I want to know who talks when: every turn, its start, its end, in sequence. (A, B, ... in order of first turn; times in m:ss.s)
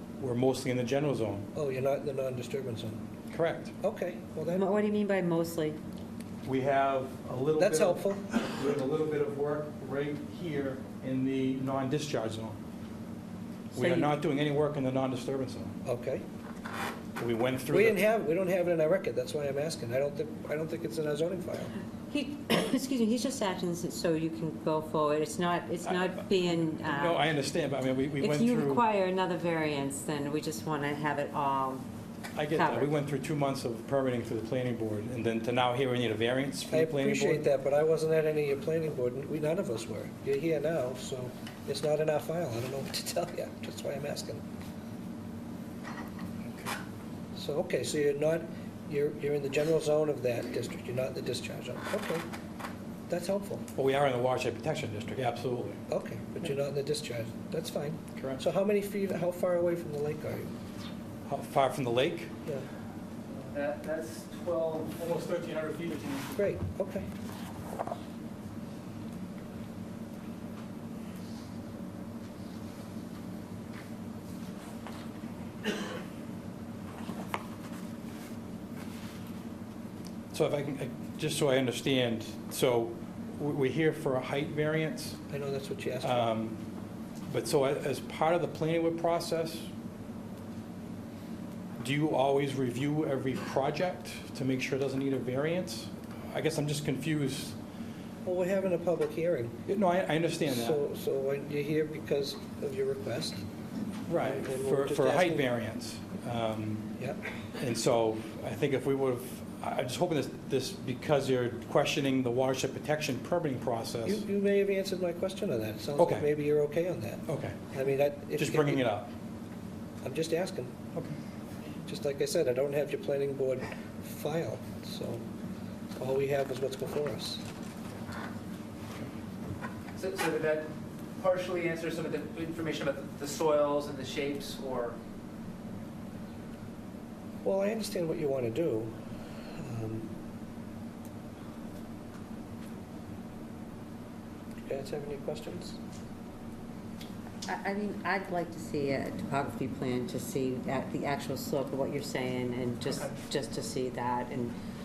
0:00.2-0:01.5 A
0:01.5-0:03.0 B
0:03.3-0:03.7 A
0:03.8-0:04.7 B
0:04.5-0:05.8 C
0:06.4-0:12.6 A
0:07.6-0:08.2 B
0:13.7-0:15.7 A
0:13.8-0:14.1 C
0:15.8-0:16.2 B
0:17.2-0:18.0 A
0:17.7-0:21.7 B
0:22.1-0:27.3 C
0:25.8-0:28.8 A
0:28.2-0:31.8 C
0:32.3-0:37.5 A
0:32.5-0:33.0 C
0:36.7-0:44.4 B
0:46.4-0:46.7 A
0:47.3-0:52.2 B
0:53.1-0:53.6 B
0:53.7-0:55.8 A
0:55.9-1:00.5 B
0:58.2-0:58.4 A
1:01.3-1:02.3 A
1:03.5-1:05.3 D
1:05.0-1:06.5 A
1:06.3-1:07.1 B
1:20.3-1:25.2 A
1:25.3-1:26.3 B
1:26.0-1:26.6 A
1:27.3-1:29.7 A
1:31.8-1:37.6 A
1:38.2-1:39.5 B
1:39.7-1:40.8 A
1:40.4-1:43.5 B
1:44.1-1:46.9 A
1:44.1-1:45.4 B
1:47.5-1:54.2 A
1:54.0-1:59.0 B
1:56.0-1:56.3 A
1:57.3-1:57.6 A
1:58.3-1:59.1 A
2:00.0-2:00.7 B
2:01.8-2:05.2 B
2:06.0-2:07.4 B
2:09.9-2:15.0 D
2:17.4-2:18.9 B
2:19.6-2:20.1 B
2:24.6-2:25.8 B
2:27.5-2:34.5 C